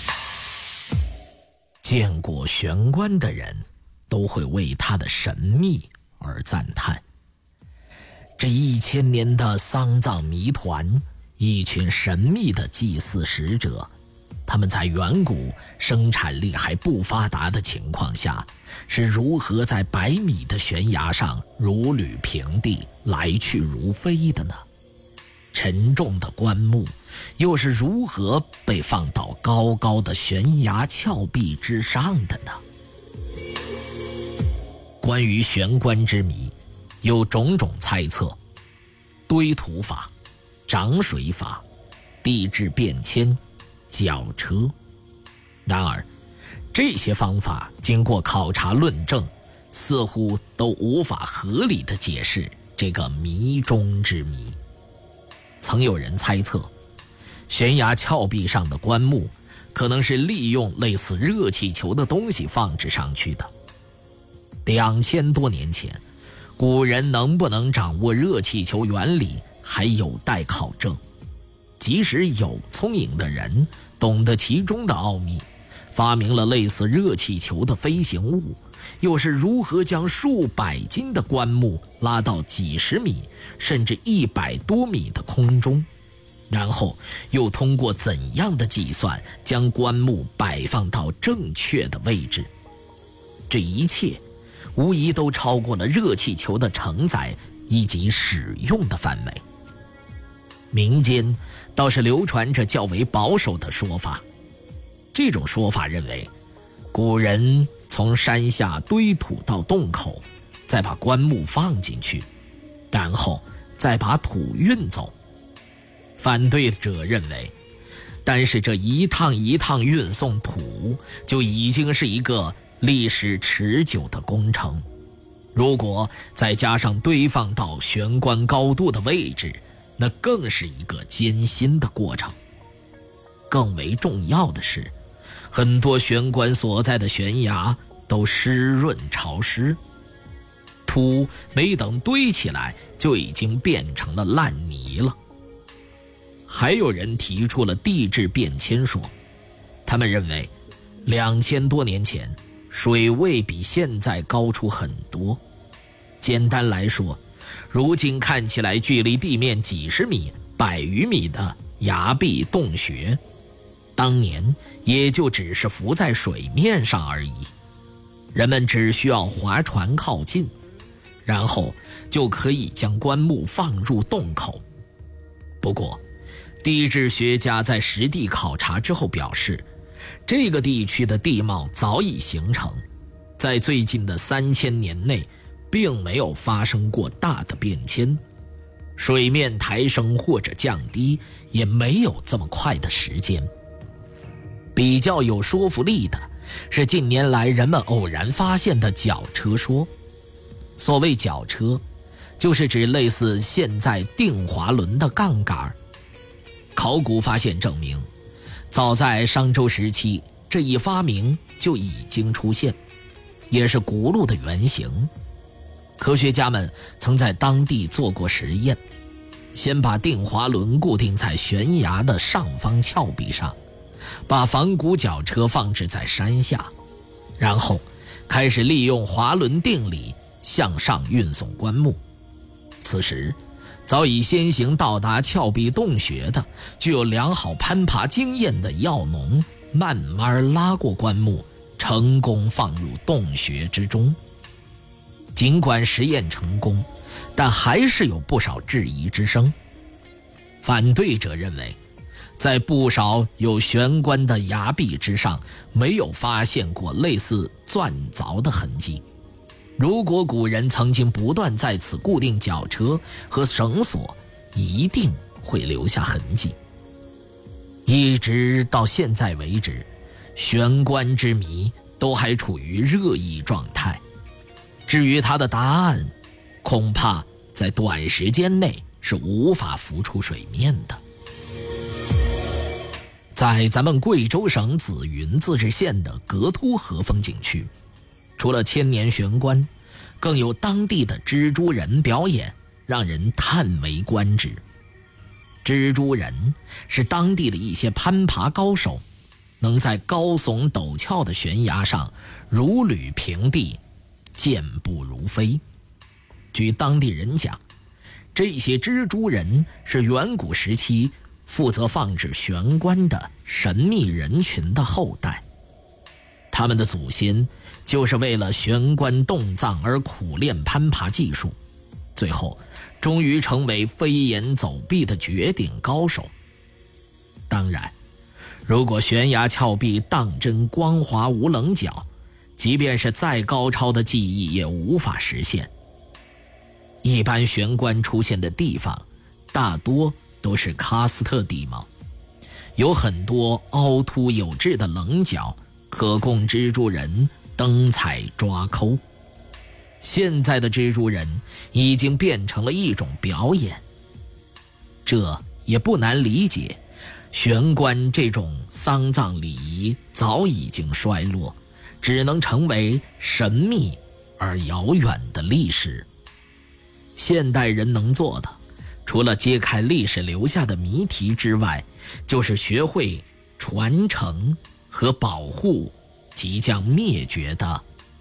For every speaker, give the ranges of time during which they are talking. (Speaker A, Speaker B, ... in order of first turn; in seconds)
Speaker A: 1.8-7.0, 8.4-13.9, 14.4-24.6, 25.5-32.6, 35.0-38.4, 39.3-40.1, 40.7-41.6, 42.2-44.7, 45.6-46.1, 46.7-54.6, 55.6-56.7, 57.5-63.5, 64.6-66.0, 66.6-71.0, 71.8-85.9, 86.5-92.5, 93.5-94.2, 94.7-99.4, 100.7-104.2, 105.1-106.3, 106.9-112.3, 112.9-115.1, 116.2-117.5, 118.2-124.8, 125.5-132.4, 133.5-134.9, 135.5-139.8, 140.8-145.2, 146.5-149.1, 149.8-150.5, 151.0-155.4, 156.2-163.2, 163.9-167.5, 168.3-170.5, 171.2-174.6, 175.6-176.0, 176.6-179.7, 180.2-182.8, 183.4-188.2, 189.0-193.5, 194.7-199.9, 200.8-201.8, 202.4-205.8, 206.7-208.1, 208.7-212.8, 213.5-215.1, 216.0-218.8, 219.5-223.6, 224.3-226.7, 227.4-232.0, 232.8-244.2, 245.3-249.5, 250.6-251.8, 252.4-259.0, 259.8-266.6, 267.9-274.0, 274.9-281.0, 283.3-287.7, 288.4-289.7, 290.2-294.6, 295.6-299.0, 299.6-303.8, 304.4-305.6, 306.5-307.6, 308.3-315.4, 316.5-321.6, 322.1-326.3, 327.5-327.9, 328.7-335.7, 337.0-341.9, 342.8-349.0, 350.0-353.8, 355.0-356.8, 357.3-366.1, 367.1-377.8